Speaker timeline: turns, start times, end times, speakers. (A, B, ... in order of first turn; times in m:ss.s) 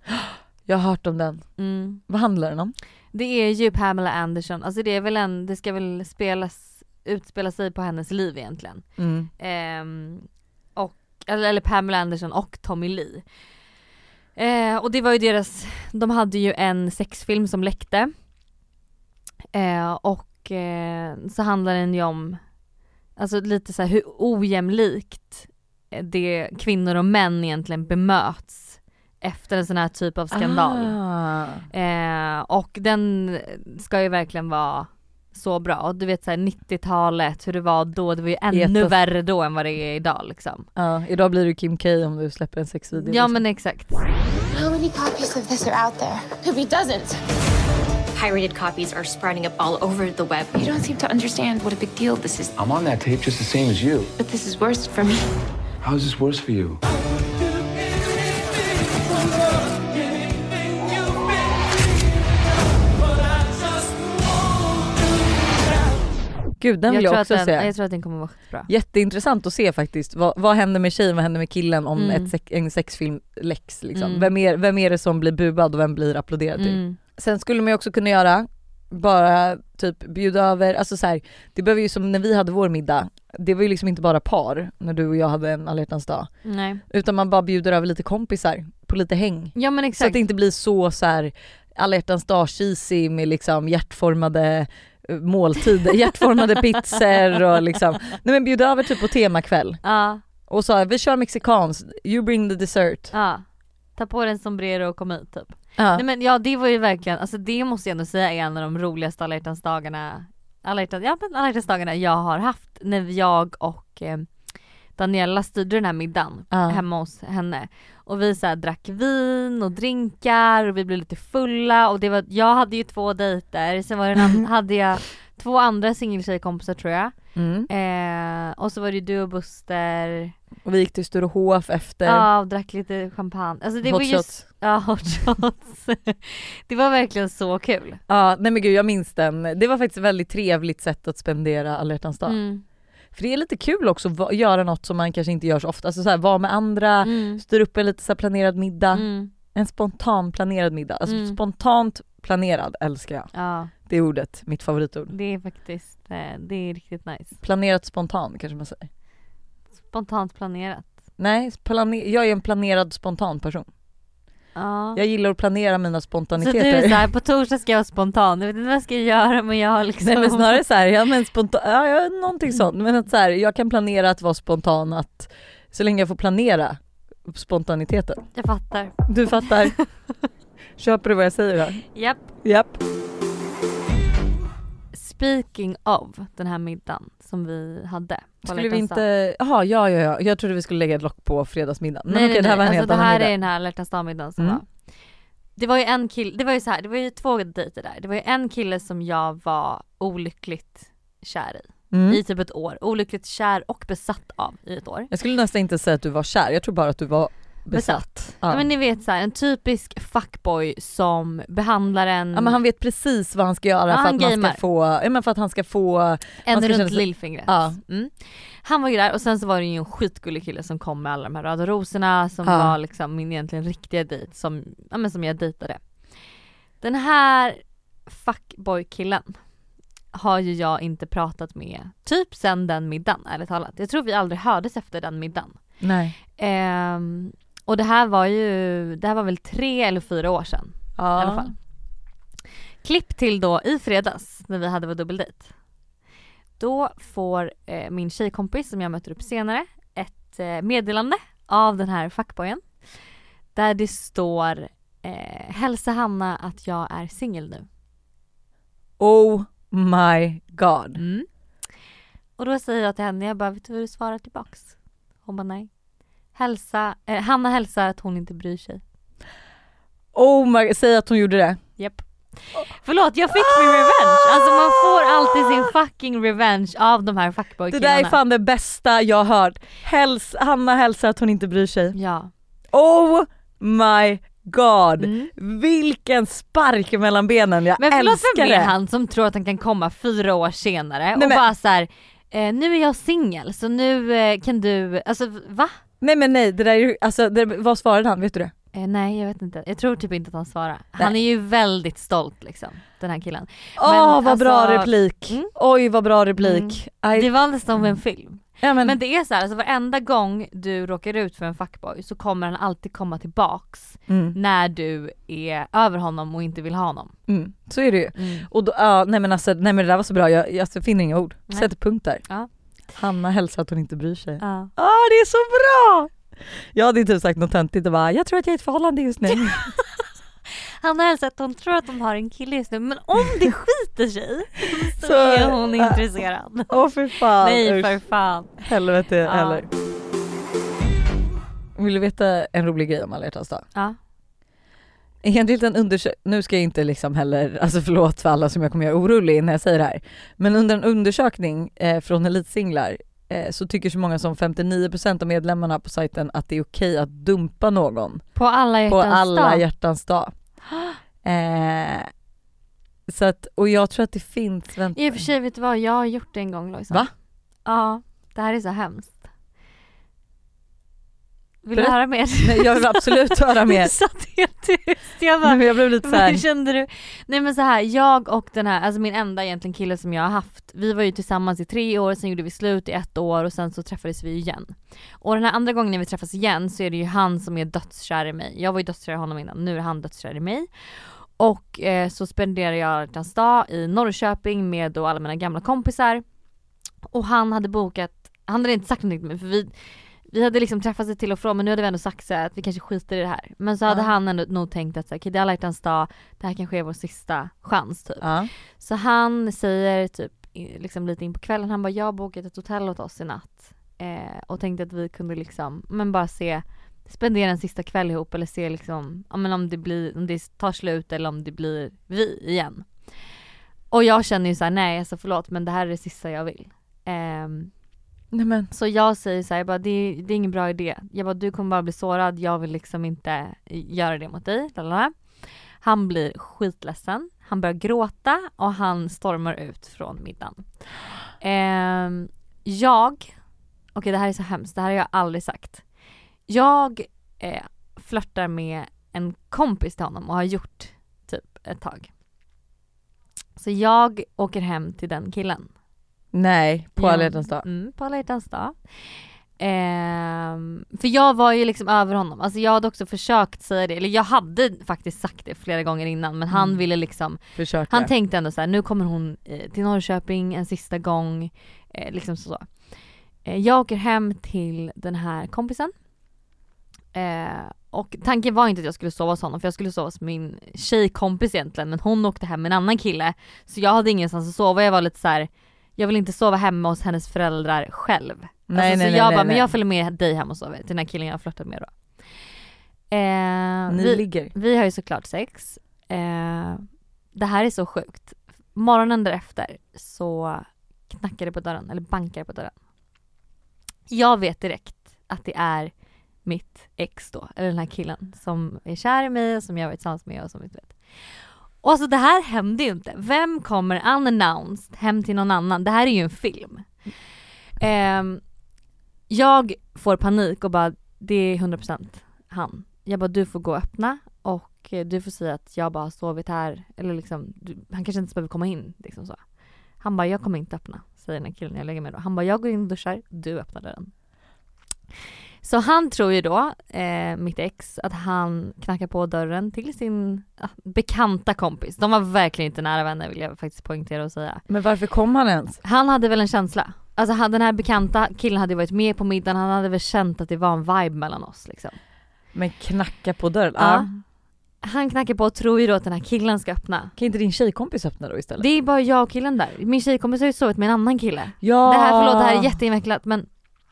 0:00.1-0:01.5 A
0:01.6-0:02.0 B
0:02.0-0:02.7 A
0:03.1-0:08.8 B
0:09.0-0:09.3 A
0:09.4-0:13.2 B
0:14.4-0:18.1 B
0:19.5-0:22.4 B
0:23.2-0:31.0 B
0:30.3-0:31.6 A
0:31.7-0:40.7 B
0:38.5-0:39.0 A
0:40.7-0:43.4 A
0:43.0-0:44.0 B
0:44.5-0:47.2 C
0:48.2-0:50.6 D
0:50.5-0:52.6 C
0:52.6-0:54.1 E
0:54.2-0:55.3 C
0:55.8-0:56.8 E
1:06.6-1:07.7 A
1:06.9-1:08.7 B
1:08.7-1:26.3 A
1:12.0-1:12.3 B
1:13.9-1:14.3 B
1:16.6-1:17.0 B
1:26.4-1:26.8 B
1:26.9-1:39.8 A
1:29.5-1:30.2 B
1:39.8-1:40.2 B
1:40.4-1:43.1 A
1:43.1-1:54.3 B
1:45.8-1:46.0 A
1:55.0-2:07.1 B
1:56.5-1:56.8 A
2:07.3-2:07.7 A
2:07.7-2:10.3 B
2:10.6-2:12.3 A
2:12.0-2:18.0 B
2:13.8-2:14.4 A
2:18.1-2:22.4 A
2:22.2-2:22.6 B
2:23.1-2:33.3 A
2:27.0-2:27.4 B
2:28.9-2:29.3 B
2:31.0-2:31.4 B
2:33.3-2:33.7 B
2:33.8-2:35.1 A
2:35.1-2:37.4 B
2:37.4-2:38.9 A
2:39.9-2:40.9 B
2:41.2-2:43.7 A
2:44.5-2:45.0 B
2:44.9-2:47.0 A
2:46.4-2:50.6 B
2:50.0-2:58.2 A
2:58.4-2:59.8 B
2:59.1-2:59.8 A
3:00.8-3:01.9 A
3:01.9-3:02.3 B
3:02.4-3:02.8 A
3:04.9-3:09.0 B
3:08.4-3:13.3 A
3:12.1-3:14.7 B
3:15.6-3:25.1 B
3:21.9-3:22.2 A
3:25.1-3:28.6 A
3:27.7-3:32.6 B
3:32.3-3:37.8 A
3:33.9-3:34.6 B
3:36.4-3:45.8 B
3:42.4-3:42.8 A
3:46.8-3:49.4 B
3:50.1-3:55.6 B
3:55.8-3:56.2 A
3:56.4-4:01.5 B
4:01.0-4:01.5 A
4:02.8-4:05.5 B
4:06.6-4:12.9 B
4:13.5-4:17.6 B
4:19.0-4:21.0 A
4:21.0-4:21.3 B
4:22.4-4:25.7 B
4:26.3-4:28.8 B
4:30.1-4:31.6 A
4:31.8-4:38.2 B
4:33.3-4:35.6 A
4:37.7-4:42.0 A
4:41.9-4:42.3 B
4:42.7-4:48.7 A
4:45.0-4:45.3 B
4:47.8-4:55.8 B
4:51.1-4:51.4 A
4:56.0-4:58.5 A
4:58.7-5:05.5 B
5:03.8-5:07.3 A
5:06.4-5:17.2 B
5:08.6-5:08.9 A
5:14.1-5:14.4 A
5:17.3-5:22.2 A
5:18.1-5:18.5 B
5:22.9-5:26.1 A
5:24.4-5:24.7 B
5:26.7-5:29.7 A
5:29.5-5:29.8 B
5:30.8-5:36.8 B
5:35.0-5:36.0 A
5:36.7-5:38.0 A
5:37.4-5:38.6 B
5:38.6-5:39.7 A
5:39.2-5:39.6 B
5:41.8-5:43.6 A
5:45.2-5:58.2 A
5:58.3-5:59.6 B
5:58.9-6:00.3 A
6:01.2-6:02.1 A
6:03.1-6:05.2 A
6:04.9-6:07.0 B
6:07.6-6:09.2 B
6:11.6-6:36.2 B
6:11.7-6:13.9 A
6:15.4-6:16.4 A
6:37.1-7:02.9 B
6:43.9-6:44.1 A
6:48.2-6:48.5 A
7:03.9-7:07.7 B
7:08.3-7:08.7 A
7:08.7-7:20.8 B
7:21.4-7:23.4 B
7:23.9-7:25.8 B
7:26.5-7:32.1 B
7:33.6-7:35.7 B
7:36.3-7:37.6 A
7:37.0-7:55.9 B
7:46.5-7:46.8 A
7:47.5-7:48.1 A
7:57.1-8:11.9 B
8:08.7-8:09.7 A
8:13.1-8:22.7 B
8:13.9-8:14.5 A
8:24.1-8:25.9 B
8:26.4-8:31.0 B
8:31.8-8:36.9 B
8:37.8-8:38.4 B
8:39.3-8:49.4 B
8:50.0-8:54.1 B
8:55.6-9:04.6 B
9:04.7-9:05.8 A
9:05.8-9:12.0 B
9:12.5-9:14.2 A
9:13.8-9:14.1 B
9:14.8-9:17.1 B
9:17.2-9:18.7 A
9:18.6-9:23.5 B
9:21.6-9:22.7 A